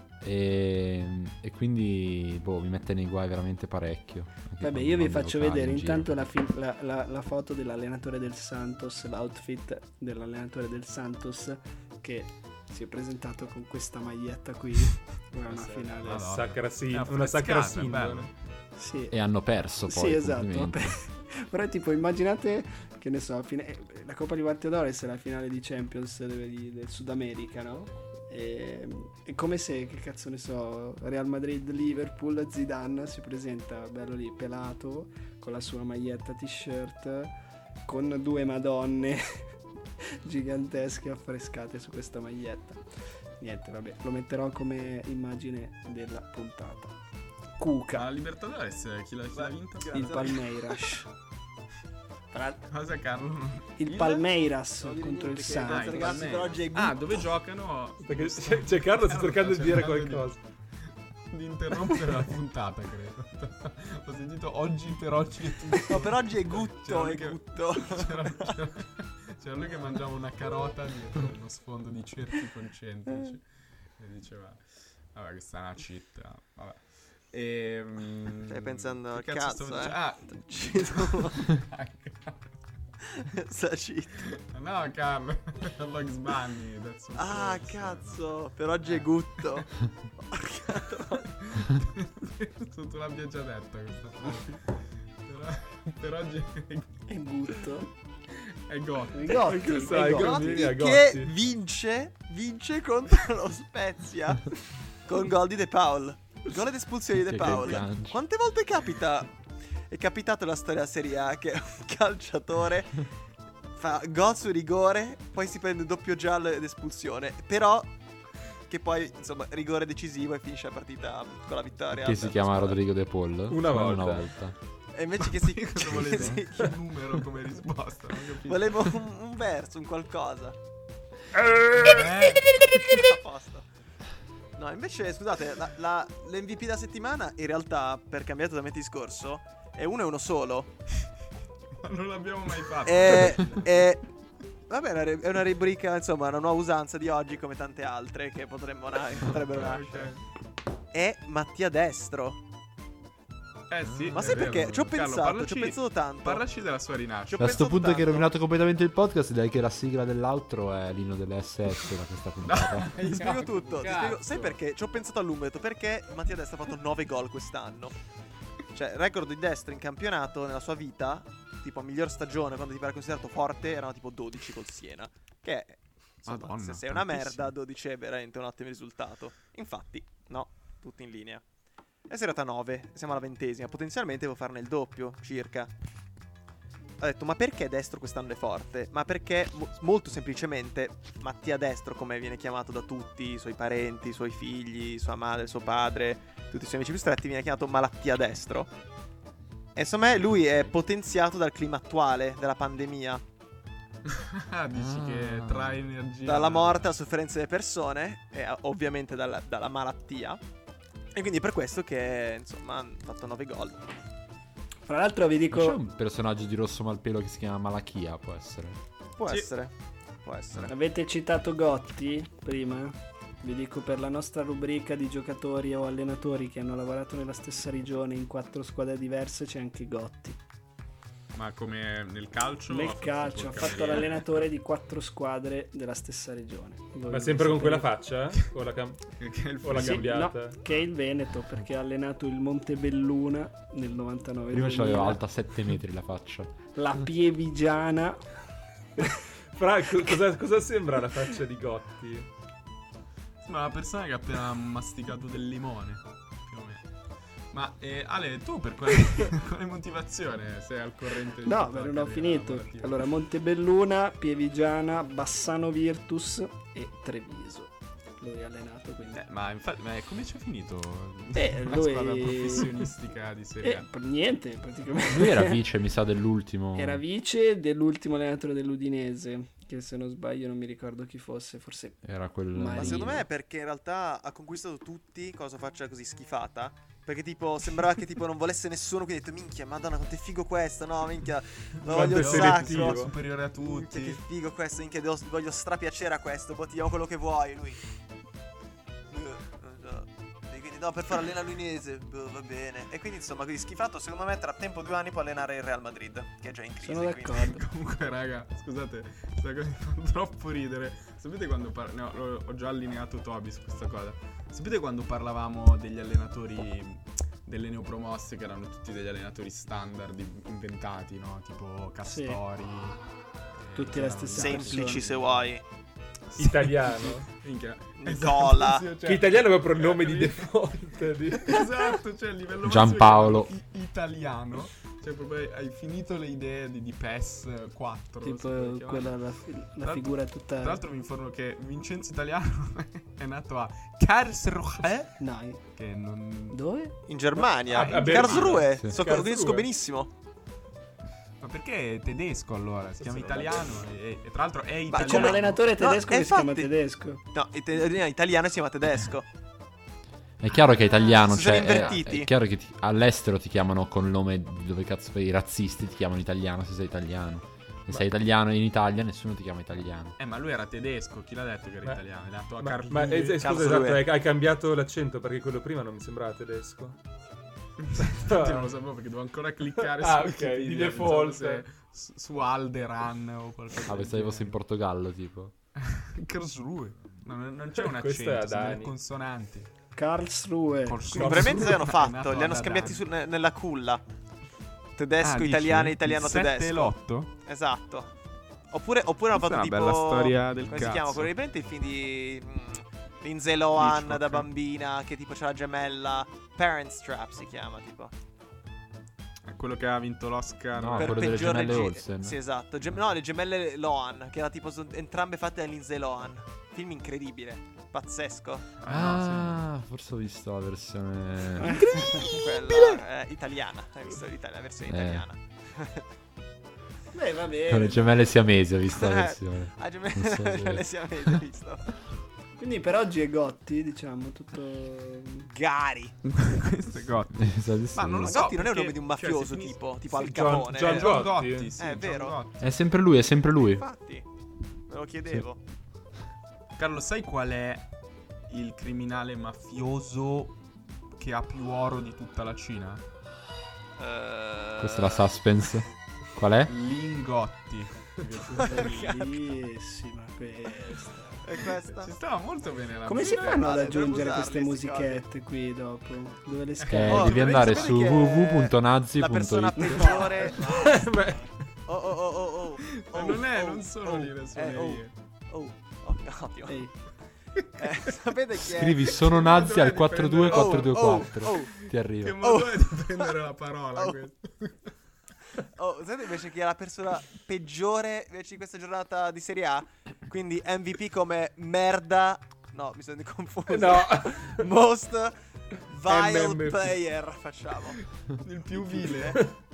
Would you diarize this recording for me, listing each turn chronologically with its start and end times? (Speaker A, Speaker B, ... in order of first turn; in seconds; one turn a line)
Speaker A: 0.2-6.2
Speaker B: 4.6-16.3
Speaker C: 15.5-18.3
Speaker D: 16.0-18.3
Speaker B: 18.8-19.2
Speaker A: 19.1-21.0
Speaker B: 19.9-37.3
Speaker B: 37.9-39.4
Speaker B: 40.2-42.8
Speaker B: 43.4-47.0
Speaker B: 47.6-48.1
Speaker C: 47.9-50.4
Speaker E: 49.3-50.5
Speaker B: 49.9-51.1
Speaker B: 52.3-52.7
Speaker C: 52.7-54.2
Speaker B: 53.8-56.3
Speaker E: 54.8-57.2
Speaker C: 55.6-60.3
Speaker D: 58.0-60.4
Speaker C: 61.3-73.5
Speaker E: 65.8-68.6
Speaker C: 74.0-82.5
Speaker E: 78.5-81.6
Speaker E: 83.0-84.2
Speaker C: 84.2-88.2
Speaker E: 87.2-91.3
Speaker C: 91.3-97.0
Speaker B: 97.1-97.9
Speaker C: 98.3-99.9
Speaker B: 99.1-100.6
Speaker D: 99.5-101.3
Speaker E: 99.6-104.5
Speaker E: 105.0-109.3
Speaker A: 107.2-108.2
Speaker C: 107.5-107.8
Speaker E: 109.9-113.1
Speaker E: 113.7-117.9
Speaker E: 118.7-122.8
Speaker A: 121.9-124.6
Speaker D: 123.5-124.3
Speaker E: 124.9-126.7
Speaker C: 125.2-128.9
Speaker E: 128.4-130.6
Speaker E: 131.5-132.1
Speaker C: 131.8-132.6
Speaker E: 132.8-133.7
Speaker E: 134.6-140.7
Speaker C: 141.8-143.7
Speaker E: 142.8-144.1
Speaker E: 144.7-150.1
Speaker C: 149.3-150.2
Speaker E: 150.9-152.4
Speaker C: 153.7-157.6
Speaker E: 154.1-156.4
Speaker E: 157.3-158.3
Speaker A: 157.4-162.9
Speaker C: 162.4-164.6
Speaker E: 163.0-167.9
Speaker E: 168.7-181.4
Speaker C: 176.3-177.5
Speaker E: 182.1-185.7
Speaker E: 187.0-198.7
Speaker E: 199.8-203.2
Speaker C: 204.1-206.9
Speaker A: 204.7-205.8
Speaker E: 206.2-210.4
Speaker E: 211.1-213.8
Speaker B: 214.9-215.8
Speaker A: 215.5-218.8
Speaker E: 219.2-220.7
Speaker B: 220.7-230.4
Speaker C: 231.3-234.5
Speaker B: 232.7-237.9
Speaker D: 237.1-239.1
Speaker C: 239.2-240.8
Speaker D: 239.6-240.6
Speaker B: 239.8-245.2
Speaker A: 244.5-246.5
Speaker B: 246.8-248.3
Speaker D: 249.0-252.3
Speaker C: 253.4-256.9
Speaker C: 257.5-263.0
Speaker B: 261.5-269.2
Speaker C: 269.1-273.9
Speaker B: 271.4-272.8
Speaker B: 273.6-275.6
Speaker A: 275.0-277.0
Speaker B: 276.8-283.3
Speaker A: 282.0-283.3
Speaker E: 282.7-297.8
Speaker D: 291.9-293.1
Speaker C: 291.9-294.2
Speaker E: 299.1-307.4
Speaker B: 306.8-307.6
Speaker C: 307.4-323.0
Speaker B: 322.1-322.4
Speaker C: 323.6-325.5
Speaker B: 323.8-325.1
Speaker E: 324.3-325.6
Speaker C: 326.3-330.5
Speaker D: 326.4-327.3
Speaker E: 328.0-328.9
Speaker D: 329.0-331.7
Speaker C: 331.4-339.2
Speaker A: 332.6-333.5
Speaker B: 338.2-340.8
Speaker C: 339.8-345.2
Speaker B: 345.2-345.6
Speaker C: 345.7-346.6
Speaker B: 346.5-347.5
Speaker E: 347.1-350.1
Speaker D: 347.7-349.7
Speaker C: 347.7-348.7
Speaker C: 351.4-355.6
Speaker E: 353.3-353.6
Speaker E: 354.9-356.7
Speaker B: 355.0-357.2
Speaker E: 357.3-359.3
Speaker A: 360.4-370.1
Speaker E: 360.9-362.3
Speaker C: 370.2-373.6
Speaker D: 372.6-377.0
Speaker E: 373.4-374.1
Speaker C: 377.8-384.6
Speaker D: 378.0-378.7
Speaker D: 379.8-381.6
Speaker A: 383.9-385.5
Speaker C: 385.8-389.7
Speaker D: 387.8-388.9
Speaker B: 389.9-391.2
Speaker C: 390.9-393.0
Speaker D: 391.1-391.8
Speaker E: 391.2-394.0
Speaker E: 395.0-398.1
Speaker C: 395.2-397.3
Speaker E: 398.7-408.1
Speaker C: 399.3-401.3
Speaker C: 403.8-404.5
Speaker C: 409.4-411.9
Speaker A: 410.8-412.4
Speaker E: 410.9-418.7
Speaker C: 418.8-419.6
Speaker A: 418.9-422.2
Speaker B: 421.6-422.3
Speaker E: 422.0-426.1
Speaker A: 424.9-425.2
Speaker B: 427.1-428.2
Speaker A: 427.7-431.4
Speaker E: 428.9-431.9
Speaker B: 432.6-435.5
Speaker E: 435.5-436.1
Speaker C: 436.2-442.7
Speaker A: 437.4-438.4
Speaker E: 438.2-442.4
Speaker D: 440.1-441.7
Speaker A: 442.6-443.8
Speaker E: 443.6-444.2
Speaker E: 444.9-445.6
Speaker C: 446.8-447.9
Speaker C: 448.5-450.6
Speaker C: 451.2-453.0
Speaker E: 454.0-455.3
Speaker A: 454.8-456.7
Speaker C: 456.7-459.0
Speaker E: 458.5-459.4
Speaker B: 458.6-461.6
Speaker E: 461.4-462.1
Speaker C: 461.9-464.1
Speaker B: 463.1-467.7
Speaker E: 463.2-465.2
Speaker C: 466.8-467.9
Speaker A: 466.9-470.1
Speaker E: 467.1-471.0
Speaker B: 469.8-471.5
Speaker D: 470.6-471.5
Speaker E: 471.9-476.8
Speaker C: 472.9-475.1
Speaker B: 476.7-477.0
Speaker E: 477.8-479.3
Speaker A: 478.6-482.4
Speaker C: 479.2-481.6
Speaker E: 480.5-481.9
Speaker C: 482.2-484.9
Speaker E: 482.4-483.3
Speaker E: 485.6-495.4
Speaker D: 493.7-494.6
Speaker E: 495.9-498.0
Speaker D: 496.0-496.9
Speaker C: 498.3-499.4
Speaker E: 498.9-499.4